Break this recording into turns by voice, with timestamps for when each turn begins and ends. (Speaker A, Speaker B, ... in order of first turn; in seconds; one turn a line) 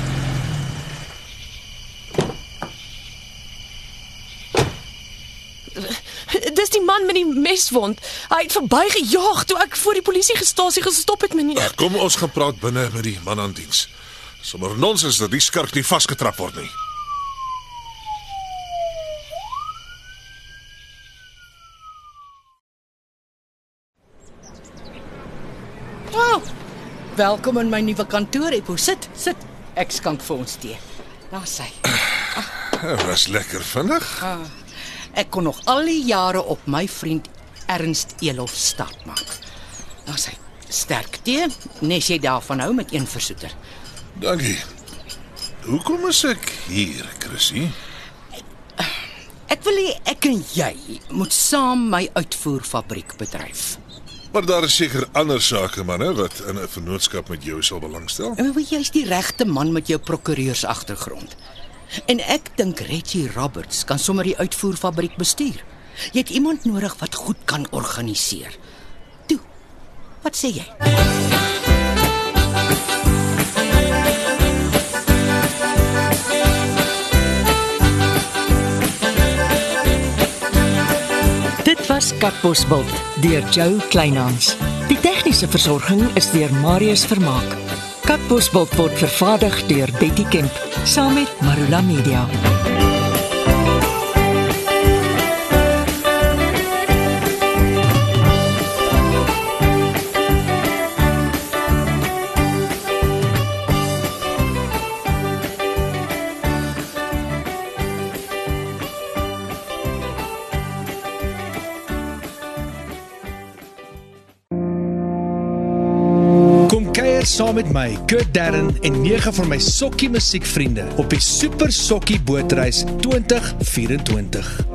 Speaker A: 5.7-11.8
Speaker B: 11.6-13.9
Speaker B: 14.4-16.7
Speaker C: 26.1-26.4
Speaker C: 27.1-32.0
Speaker B: 32.6-34.3
Speaker C: 34.2-34.5
Speaker C: 35.1-39.3
Speaker C: 40.1-43.5
Speaker B: 44.2-44.7
Speaker B: 45.6-47.8
Speaker C: 49.5-53.8
Speaker B: 54.3-58.4
Speaker C: 58.4-61.4
Speaker C: 62.0-68.6
Speaker C: 70.2-70.7
Speaker D: 81.6-92.3
Speaker E: 116.7-124.5